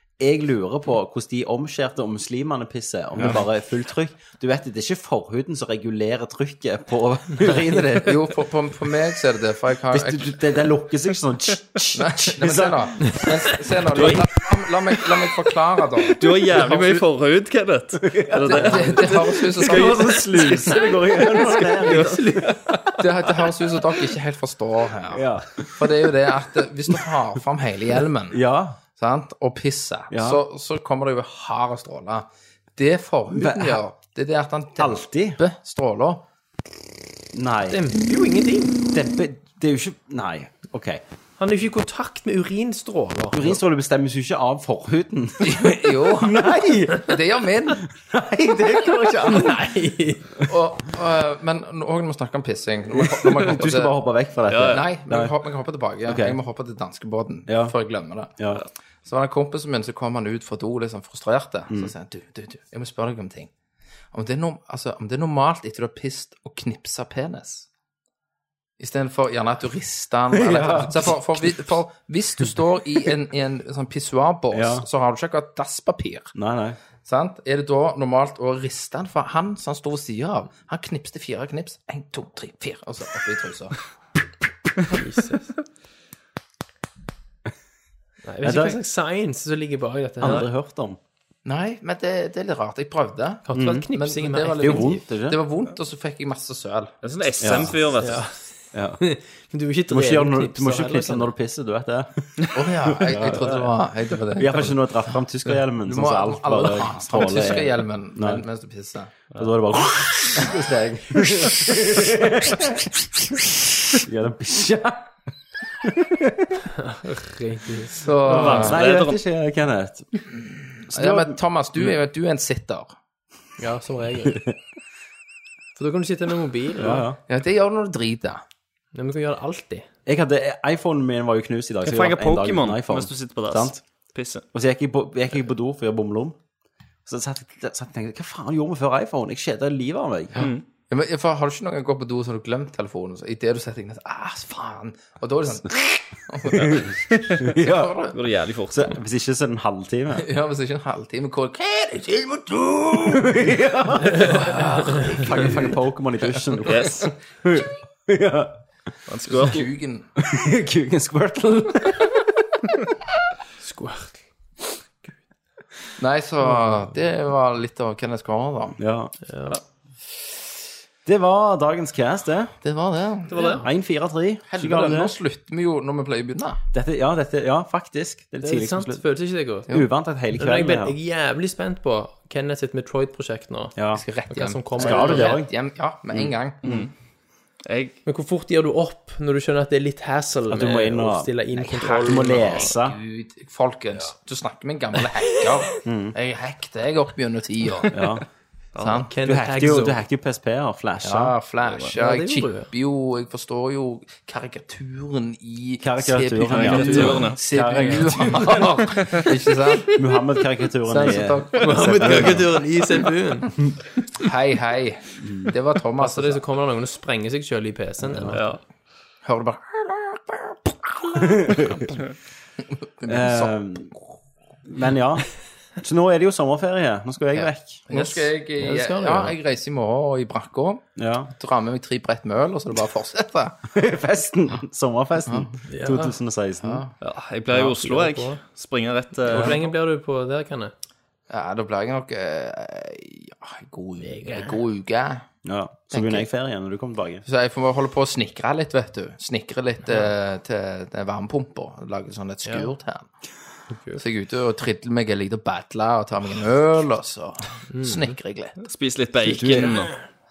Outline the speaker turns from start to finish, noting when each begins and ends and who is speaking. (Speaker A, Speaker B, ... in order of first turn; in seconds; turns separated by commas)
Speaker A: 0.2-8.3, Speaker B: 7.4-7.8, Speaker C: 8.0-10.6, Speaker A: 9.9-13.2, Speaker C: 11.9-16.7, Speaker D: 13.9-14.3, Speaker D: 16.2-20.9, Speaker A: 18.0-22.6, Speaker C: 18.5-20.4, Speaker B: 21.2-23.0, Speaker D: 21.8-22.5, Speaker C: 23.0-25.2, Speaker A: 25.1-26.1, Speaker C: 25.7-28.4, Speaker A: 28.3-28.8, Speaker C: 28.9-36.2, Speaker A: 30.1-30.4, Speaker A: 33.3-33.8, Speaker A: 34.8-35.4, Speaker A: 37.3-37.8, Speaker B: 37.6-38.8, Speaker A: 38.9-41.0, Speaker B: 41.4-43.6, Speaker A: 43.3-47.2, Speaker C: 45.4-47.9, Speaker A: 47.7-49.7, Speaker B: 49.2-50.5, Speaker C: 50.4-54.0, Speaker A: 53.0-55.3, Speaker D: 54.5-54.8, Speaker C: 54.7-58.3, Speaker A: 56.0-56.4, Speaker A: 57.5-57.7, Speaker A: 58.4-58.6, Speaker C: 59.0-63.5, Speaker C: 64.1-67.7, Speaker C: 68.8-76.3, Speaker A: 70.3-71.6, Speaker A: 74.5-74.8, Speaker A: 76.3-76.8, Speaker C: 77.0-83.8, Speaker B: 84.8-85.5, Speaker B: 88.2-90.5, Speaker A: 88.4-88.8, Speaker A: 90.2-91.0, Speaker C: 91.4-96.9, Speaker B: 93.5-95.0, Speaker A: 93.5-93.9, Speaker A: 94.6-95.4, Speaker D: 97.0-98.3, Speaker A: 97.4-97.8, Speaker B: 98.0-101.3, Speaker A: 98.7-99.0, Speaker A: 99.9-103.6, Speaker C: 102.5-104.8, Speaker A: 104.3-108.4, Speaker C: 105.8-109.1, Speaker A: 109.3-113.2, Speaker A: 113.9-115.1, Speaker A: 115.8-116.6, Speaker B: 116.8-118.1, Speaker C: 118.0-118.8, Speaker D: 118.3-119.2, Speaker A: 118.3-120.1, Speaker A: 120.9-121.4, Speaker C: 120.9-122.9, Speaker B: 123.6-124.4, Speaker A: 124.2-124.5, Speaker B: 125.8-127.1, Speaker A: 126.8-127.2, Speaker C: 127.3-128.4, Speaker B: 128.9-129.9, Speaker A: 130.1-133.8, Speaker D: 131.8-134.4, Speaker A: 134.5-136.4, Speaker A: 137.1-140.5, Speaker D: 140.3-140.6, Speaker C: 140.9-148.2, Speaker A: 146.5-148.0, Speaker D: 148.1-148.9, Speaker A: 148.7-150.3, Speaker C: 150.2-153.3, Speaker A: 153.0-158.6, Speaker C: 154.1-156.4, Speaker D: 156.7-157.1, Speaker D: 159.1-159.6, Speaker C: 159.3-160.1, Speaker A: 160.2-162.3, Speaker B: 163.6-164.2, Speaker C: 166.0-168.8, Speaker A: 168.8-169.1, Speaker B: 169.3-169.6, Speaker A: 171.0-172.5, Speaker C: 172.6-173.6, Speaker B: 173.3-173.7, Speaker A: 173.6-175.1, Speaker C: 174.5-176.6, Speaker A: 176.7-179.0, Speaker B: 178.4-179.8, Speaker A: 179.7-181.0, Speaker B: 180.3-183.8, Speaker A: 183.8-184.0, Speaker C: 183.9-186.7, Speaker B: 184.3-185.4, Speaker A: 184.8-185.5, Speaker A: 186.1-186.8, Speaker D: 186.6-186.9, Speaker D: 187.7-188.0, Speaker B: 188.0-192.7, Speaker A: 190.5-193.0, Speaker C: 191.6-198.0, Speaker A: 195.8-196.1, Speaker A: 197.9-198.2, Speaker D: 198.7-199.0, Speaker C: 198.8-199.1, Speaker B: 199.1-200.0, Speaker A: 199.2-201.3, Speaker C: 201.0-210.0, Speaker B: 201.9-202.7, Speaker A: 205.8-209.2, Speaker D: 206.5-207.4, Speaker A: 209.8-212.7, Speaker C: 210.8-212.3, Speaker B: 211.6-213.6, Speaker C: 214.2-216.4, Speaker A: 215.2-215.5, Speaker B: 216.0-218.5, Speaker A: 218.0-218.4, Speaker D: 218.3-218.6, Speaker C: 219.2-221.9, Speaker A: 221.2-222.0, Speaker C: 223.0-223.5, Speaker A: 223.1-223.9, Speaker A: 224.6-227.8, Speaker B: 227.4-229.3, Speaker C: 227.9-233.6, Speaker A: 230.9-231.3, Speaker A: 233.7-236.8, Speaker C: 235.2-235.5, Speaker B: 235.7-236.2, Speaker C: 236.6-236.9, Speaker D: 237.0-239.7, Speaker B: 237.5-238.4, Speaker B: 239.2-240.7, Speaker C: 241.3-245.2, Speaker B: 244.1-244.6, Speaker A: 245.4-247.2, Speaker C: 245.9-246.3, Speaker C: 247.2-253.1, Speaker B: 252.4-252.7, Speaker B: 253.7-254.0, Speaker C: 254.0-258.6, Speaker B: 257.7-258.1, Speaker D: 258.6-259.9, Speaker A: 259.2-259.9